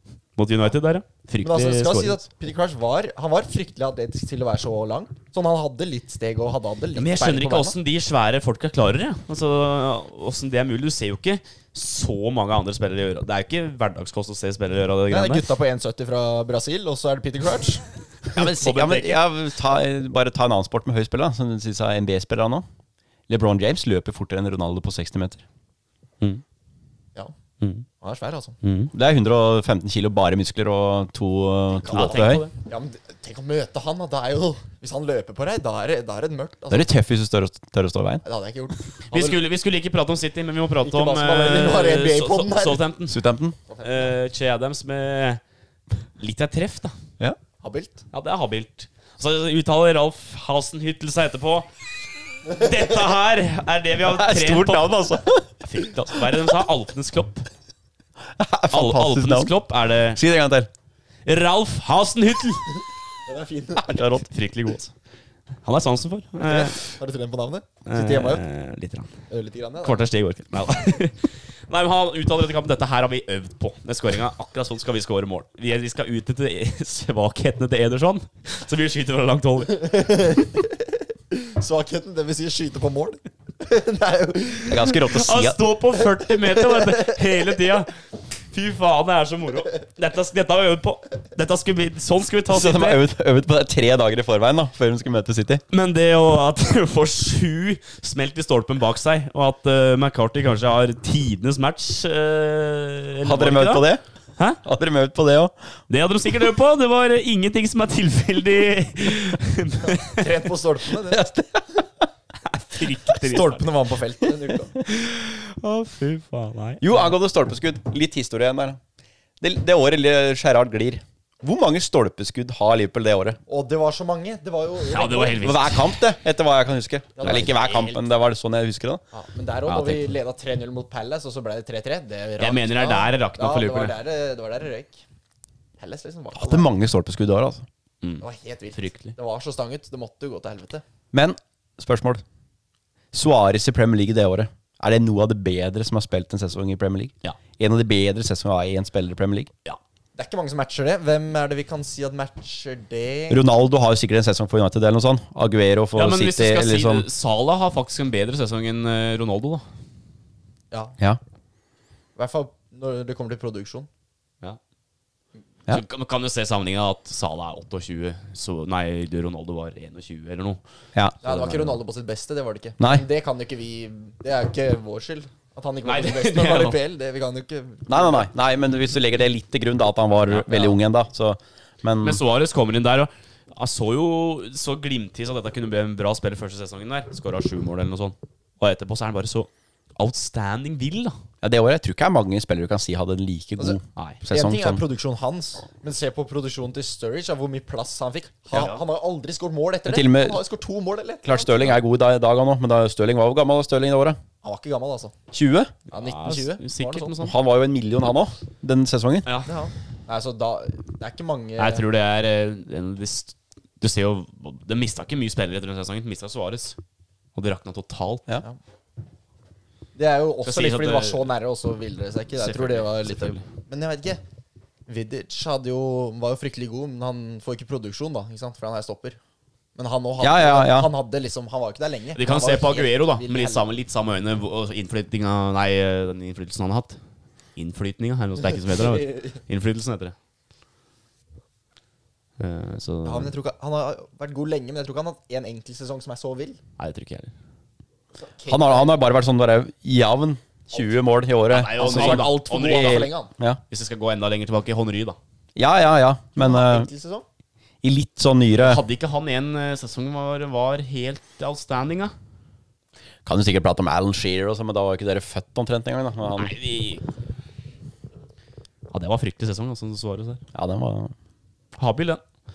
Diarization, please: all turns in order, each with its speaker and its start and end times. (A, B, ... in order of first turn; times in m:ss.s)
0:00.4-0:02.2 A
0:01.4-0:07.8 B
0:07.0-0:15.5 A
0:15.1-0:17.8 B
0:18.3-0:19.2 A
0:18.4-0:22.6 C
0:23.3-0:25.4 C
0:27.6-0:27.9 A
0:28.0-0:28.6 B
0:28.6-0:28.9 A
0:28.9-0:32.5 C
0:31.9-0:32.5 A
0:32.0-0:36.9 B
0:36.7-0:38.2 C
0:38.2-0:39.4 B
0:39.1-0:43.2 A
0:40.8-0:42.8 B
0:43.1-0:43.6 C
0:43.7-0:44.1 B
0:43.8-0:45.4 A
0:46.2-0:47.0 A
0:47.6-0:48.0 B
0:48.1-0:51.7 A
0:52.4-0:55.0 A
0:54.0-0:55.5 C
0:55.6-0:57.5 A
0:58.3-0:59.5 C
0:58.7-1:00.2 A
1:00.1-1:00.7 C
1:01.3-1:02.8 A
1:03.3-1:03.9 B
1:03.8-1:04.3 C
1:04.1-1:04.9 A
1:05.6-1:06.8 A
1:06.4-1:08.4 B
1:07.9-1:09.1 A
1:09.3-1:10.1 B
1:09.8-1:19.9 A
1:19.7-1:25.0 B
1:24.7-1:25.6 C
1:24.9-1:27.9 A
1:26.1-1:27.6 B
1:28.5-1:33.0 A
1:32.5-1:35.6 C
1:35.7-1:43.9 A
1:43.2-1:44.0 C
1:44.6-1:45.5 C
1:45.9-1:50.3 A
1:49.9-1:51.2 B
1:51.1-1:51.8 C
1:52.5-1:53.7 A
1:53.1-1:54.8 B
1:54.8-1:56.8 A
1:56.8-1:58.8 C
1:59.4-2:03.4 C
2:03.5-2:05.5 B
2:04.8-2:05.9 A
2:05.4-2:09.0 C
2:07.2-2:08.0 B
2:07.3-2:07.8 A
2:09.1-2:15.0 B
2:09.7-2:10.0 C
2:12.4-2:14.0 A
2:15.8-2:16.7 B
2:16.4-2:17.7 C
2:18.0-2:19.1 A
2:18.2-2:20.8 B
2:21.1-2:22.2 C
2:23.1-2:29.5 C
2:30.2-2:33.4 B
2:33.3-2:37.1 C
2:36.0-2:39.6 A
2:40.7-2:41.0 B
2:42.2-2:43.9 B
2:45.7-2:50.6 A
2:51.2-2:51.7 A
2:51.2-2:58.3 B
2:52.8-2:53.0 C
2:55.8-2:56.8 A
2:57.9-3:02.2 C
3:00.3-3:00.6 A
3:02.0-3:11.2 A
3:11.4-3:14.8 C
3:13.6-3:21.8 B
3:14.0-3:14.2 A
3:18.5-3:18.8 A
3:19.9-3:20.4 C
3:21.2-3:24.2 C
3:24.4-3:25.2 B
3:25.3-3:25.7 C
3:25.9-3:27.2 B
3:25.9-3:27.4 A
3:27.2-3:29.3 C
3:29.3-3:29.5 A
3:29.5-3:31.8 B
3:31.6-3:36.8 A
3:37.4-3:38.2 A
3:40.0-3:44.2 B
3:40.4-3:41.3 A
3:42.4-3:43.4 A
3:44.9-3:49.2 B
3:49.8-3:53.7 B
3:50.2-3:50.9 C
3:52.2-3:57.0 A
3:57.6-4:00.2 A
3:58.6-3:59.4 B
4:02.4-4:03.3 A
4:03.0-4:06.6 B
4:06.8-4:07.3 A
4:08.2-4:09.0 B
4:08.5-4:13.6 C
4:11.5-4:13.1 A
4:11.8-4:13.3 B
4:13.7-4:15.2 A
4:15.6-4:16.9 C
4:16.4-4:17.2 B
4:17.8-4:18.8 C
4:18.5-4:22.1 A
4:23.2-4:26.6 C
4:26.4-4:27.0 A
4:28.9-4:30.4 A
4:30.5-4:31.1 C
4:31.8-4:32.2 A